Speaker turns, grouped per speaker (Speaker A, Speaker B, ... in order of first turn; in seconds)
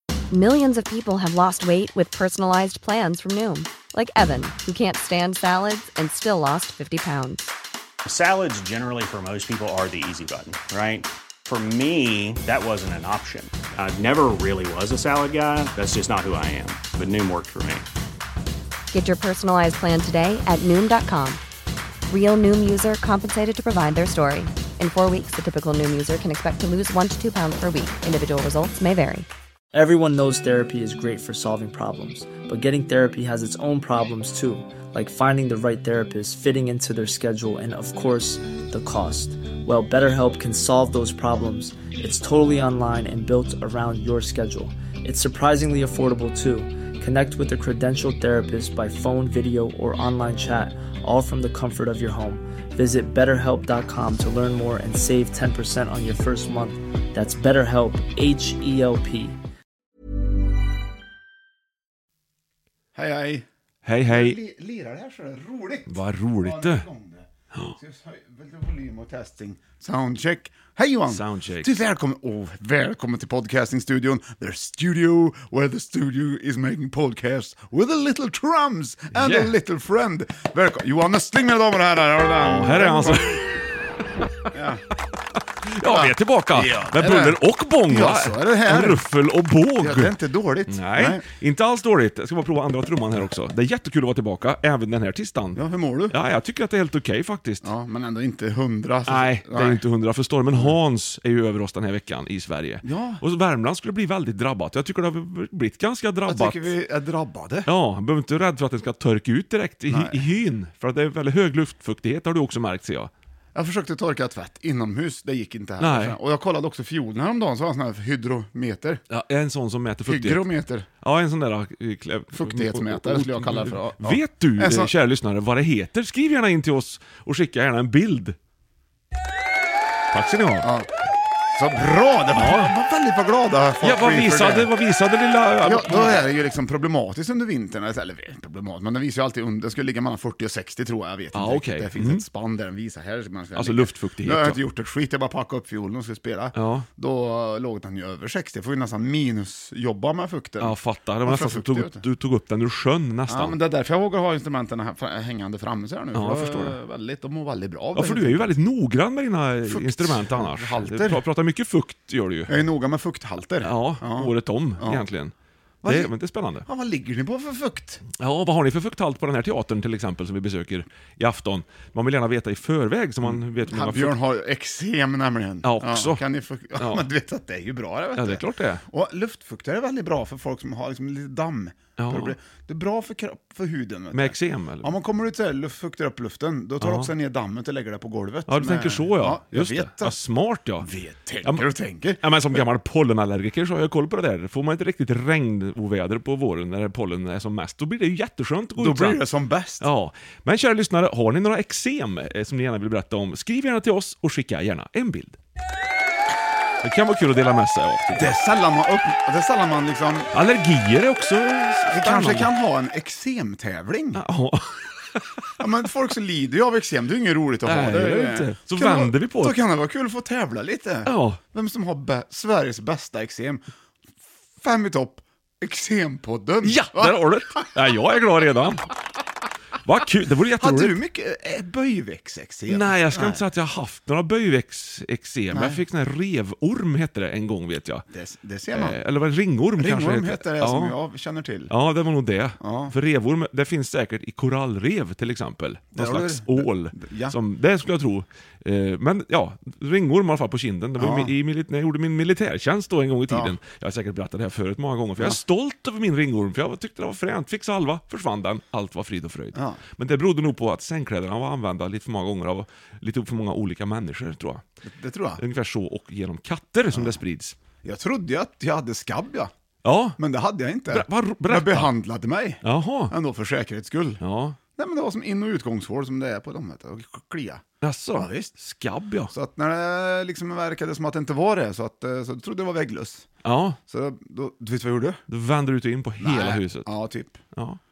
Speaker A: 0.3-7.5, 18.9-21.4, 22.1-29.3
Speaker B: 8.1-17.8
Speaker C: 29.7-59.4
Speaker D: 62.9-63.5, 64.1-83.4, 84.5-84.8, 85.8-89.0, 89.8-91.2, 95.5-96.2, 97.6-99.8, 102.8-103.2, 106.3-107.7, 109.9-110.2, 113.5-119.0, 120.0-120.9, 122.3-124.9, 130.6-130.9, 131.5-134.7, 135.6-152.0, 153.3-158.5, 159.7-161.2, 162.5-165.0, 165.8-166.1, 166.7-168.0, 173.2-190.2, 190.8-192.6, 198.8-199.9, 208.1-210.3, 211.9-214.2, 215.6-223.6, 224.6-227.4, 230.6-233.4, 235.5-235.8, 238.1-239.0, 239.8-241.7, 242.6-242.9, 245.9-247.4, 251.0-251.3, 253.3-253.6, 259.5-259.8, 264.8-265.4, 266.9-267.2, 267.8-269.5, 270.2-274.2, 274.8-277.6, 278.1-278.5, 279.3-283.3, 283.9-285.2, 286.2-287.4
Speaker E: 63.8-64.4, 65.9-66.8, 71.1-71.7, 79.1-79.5, 82.4-83.4, 85.7-90.1, 90.7-97.7, 99.1-106.7, 107.7-113.1, 115.8-116.2, 119.1-120.4, 121.0-128.3, 130.1-130.7, 132.3-132.7, 133.8-136.3, 141.3-142.2, 143.5-144.6, 146.5-146.9, 150.6-153.6, 156.1-156.8, 157.9-162.6, 163.6-165.3, 165.8-166.7, 168.1-174.2, 175.6-176.2, 176.8-177.0, 178.2-178.8, 182.0-182.3, 184.1-184.9, 186.8-187.1, 188.5-190.9, 192.2-199.2, 199.8-205.4, 206.8-208.4, 210.3-212.5, 214.1-215.5, 217.6-219.6, 221.1-221.4, 226.6-228.8, 229.8-231.0, 232.7-238.0, 238.7-241.0, 241.7-264.7, 265.4-267.5, 269.8-270.2, 270.9-271.9, 272.6-273.1, 274.2-274.6, 277.8-279.3, 283.4-283.8, 285.3-286.9